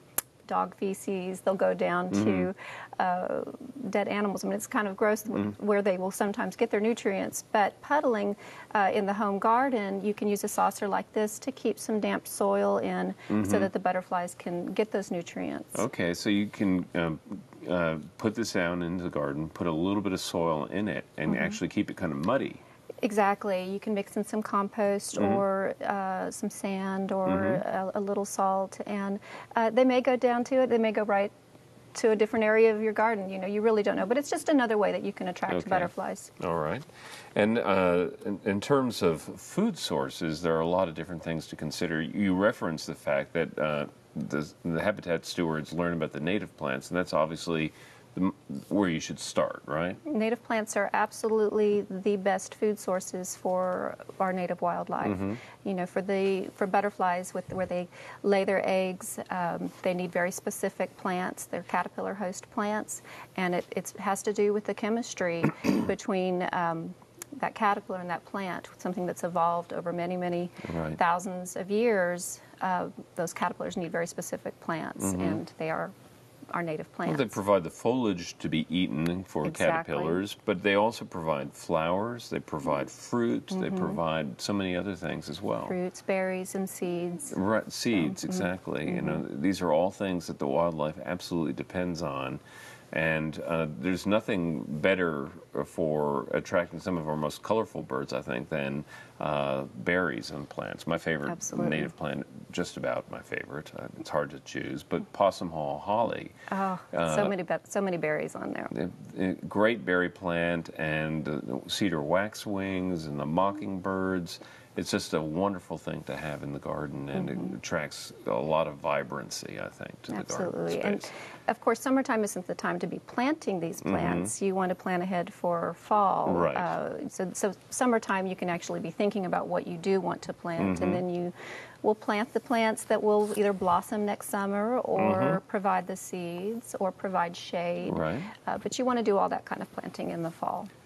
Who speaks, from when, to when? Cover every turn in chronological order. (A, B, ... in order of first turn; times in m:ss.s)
0:00.5-0:15.8 A
0:02.1-0:02.5 B
0:13.3-0:13.7 B
0:15.8-0:22.6 B
0:21.3-0:21.6 A
0:23.0-0:31.3 A
0:25.2-0:25.4 B
0:27.3-0:27.6 B
0:31.9-0:36.3 A
0:35.5-0:50.0 B
0:50.1-1:15.9 A
0:55.0-0:55.4 B
1:10.6-1:11.0 B
1:15.0-1:15.4 B
1:16.5-1:17.4 A
1:17.0-1:25.8 B
1:19.4-1:20.2 A
1:23.5-1:24.0 A
1:25.6-1:27.4 A
1:27.3-1:46.4 B
1:28.0-1:29.2 A
1:41.3-1:41.9 A
1:46.5-1:48.7 A
1:46.9-1:47.3 B
1:48.7-2:01.1 B
1:57.2-1:57.5 A
2:00.1-2:20.7 A
2:03.8-2:04.3 B
2:06.3-2:06.7 B
2:10.6-2:11.0 B
2:15.0-2:15.4 B
2:17.8-2:18.3 B